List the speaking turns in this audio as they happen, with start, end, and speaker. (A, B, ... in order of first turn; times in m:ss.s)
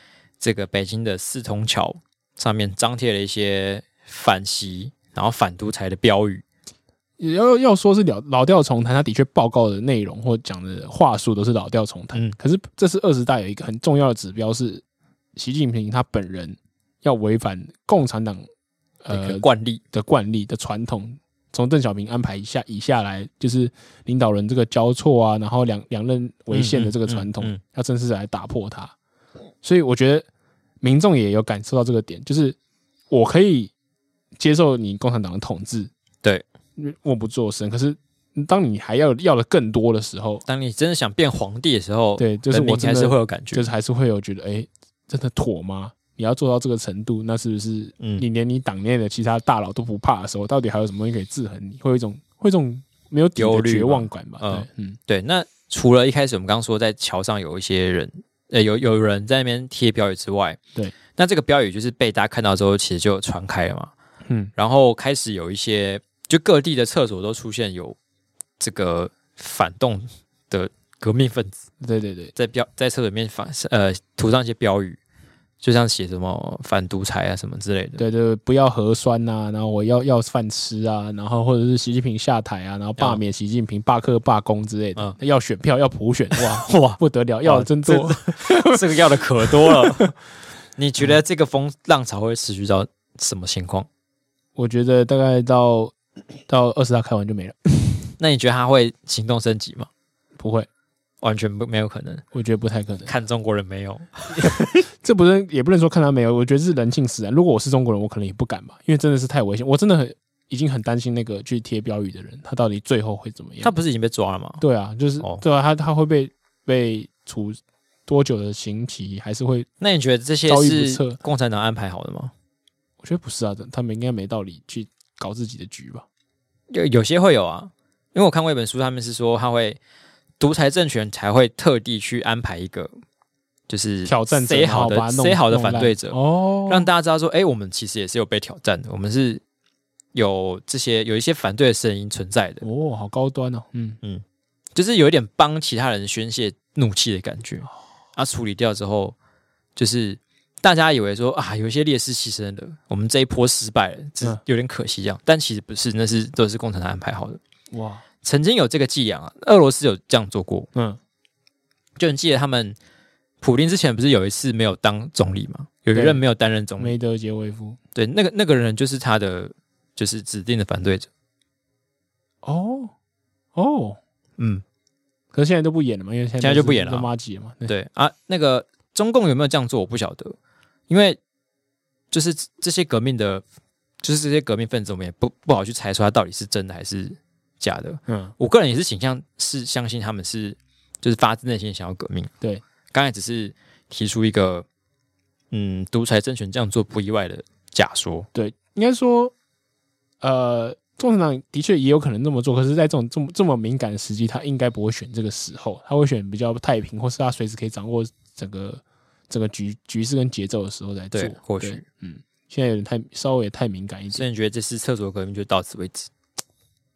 0:00.4-0:06.4 A
0:07.2-0:14.8 B
0:15.4-0:18.4 B
0:19.0-0:28.9 B
0:19.1-0:19.8 A
0:26.5-0:27.6 A
0:29.6-0:30.3 B
0:30.8-0:32.6 B
0:33.1-0:33.7 B
0:34.4-0:35.9 B
0:36.8-0:40.4 B
0:40.5-0:43.7 A
0:42.2-0:55.0 B
0:48.0-0:48.2 A
0:53.4-1:00.6 A
1:01.1-1:03.9 A
1:04.3-1:04.5 B
1:04.6-1:08.0 A
1:08.6-1:11.6 A
1:11.8-1:12.3 B
1:12.4-1:15.0 A
1:15.6-1:18.0 A
1:18.0-1:30.1 B
1:26.4-1:30.1 A
1:30.8-1:33.9 A
1:34.6-1:36.0 B
1:36.5-1:38.1 B
1:38.2-1:39.9 A
1:40.4-1:40.7 B
1:41.2-1:42.2 A
1:42.3-1:43.1 B
1:43.0-1:44.8 A
1:44.4-1:53.7 B
1:53.6-1:54.6 A
1:54.6-1:59.7 B
1:59.8-2:02.3 A
2:00.5-2:01.2 B
2:03.0-2:06.0 B
2:06.7-2:09.8 A
2:10.4-2:12.9 A
2:13.7-2:19.4 A
2:14.0-2:16.9 B
2:20.1-2:22.6 A
2:22.6-2:24.0 B
2:24.7-2:29.1 A
2:29.8-2:37.4 A
2:37.7-2:38.0 B
2:38.2-2:40.7 A
2:42.0-2:42.8 A
2:43.4-2:47.0 A
2:45.9-2:46.2 B
2:46.8-2:47.8 B
2:48.0-2:51.1 A
2:52.4-2:52.9 B
2:53.6-2:54.0 B
2:54.4-2:54.6 A
2:55.3-2:57.7 B
2:56.4-2:57.1 A
2:57.7-3:00.4 A
3:00.9-3:01.2 A
3:02.1-3:03.4 A
3:04.0-3:12.3 A
3:08.1-3:08.3 B
3:12.9-3:14.7 A
3:15.5-3:18.3 A
3:18.3-3:19.3 B
3:20.2-3:34.2 B
3:31.1-3:31.8 A
3:34.1-3:36.1 A